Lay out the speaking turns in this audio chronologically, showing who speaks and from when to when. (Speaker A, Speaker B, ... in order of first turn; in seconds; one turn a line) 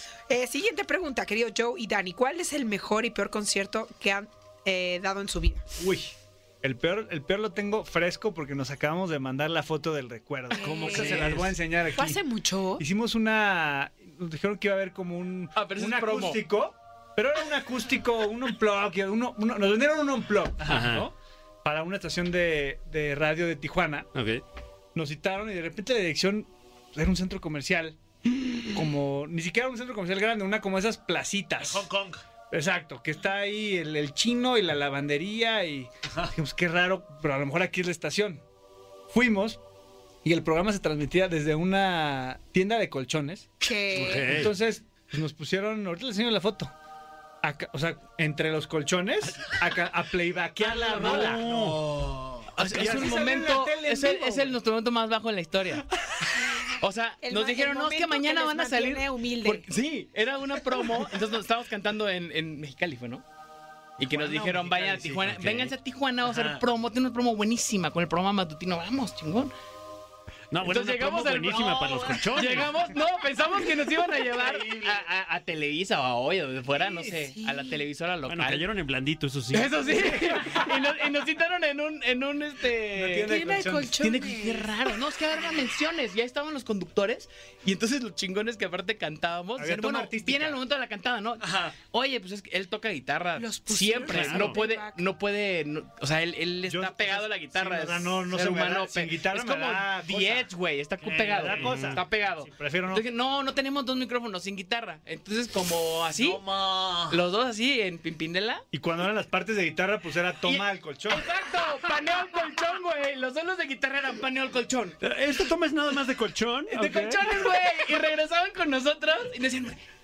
Speaker A: 0.3-5.6
Speaker B: 5.8-12.2
Speaker A: 10.5-11.3
Speaker C: 10.6-11.6
Speaker A: 11.9-12.8
Speaker B: 12.8-24.1
Speaker D: 15.6-16.4
Speaker C: 20.6-21.1
Speaker C: 24.1-24.4
Speaker B: 24.9-28.0
Speaker B: 28.6-31.9
Speaker E: 31.6-32.2
Speaker B: 32.5-38.4
Speaker B: 39.1-39.6
Speaker B: 40.2-43.5
Speaker A: 43.6-44.4
Speaker C: 44.0-44.5
Speaker B: 44.3-46.7
Speaker B: 47.4-51.4
Speaker E: 50.6-52.5
Speaker C: 50.9-51.8
Speaker D: 52.6-55.9
Speaker B: 52.6-54.5
Speaker D: 56.7-63.2
Speaker A: 57.2-59.6
Speaker D: 64.0-69.5
Speaker E: 64.0-65.2
Speaker C: 65.2-65.7
Speaker E: 66.3-66.6
Speaker C: 70.5-72.7
Speaker D: 70.6-78.7
Speaker E: 71.5-72.3
Speaker E: 74.3-75.0
Speaker A: 77.2-77.8
Speaker C: 78.3-79.9
Speaker D: 79.5-83.4
Speaker B: 80.0-80.6
Speaker B: 82.9-84.0
Speaker A: 83.3-84.8
Speaker D: 84.0-106.4
Speaker B: 89.6-90.6
Speaker A: 93.4-95.0
Speaker C: 94.1-94.6
Speaker B: 96.7-100.5
Speaker E: 101.1-101.5
Speaker B: 101.2-103.0
Speaker C: 101.5-102.0
Speaker E: 106.2-107.2
Speaker D: 107.1-108.6
Speaker B: 108.7-111.3
Speaker D: 110.5-115.0
Speaker C: 115.0-117.3
Speaker D: 116.7-119.8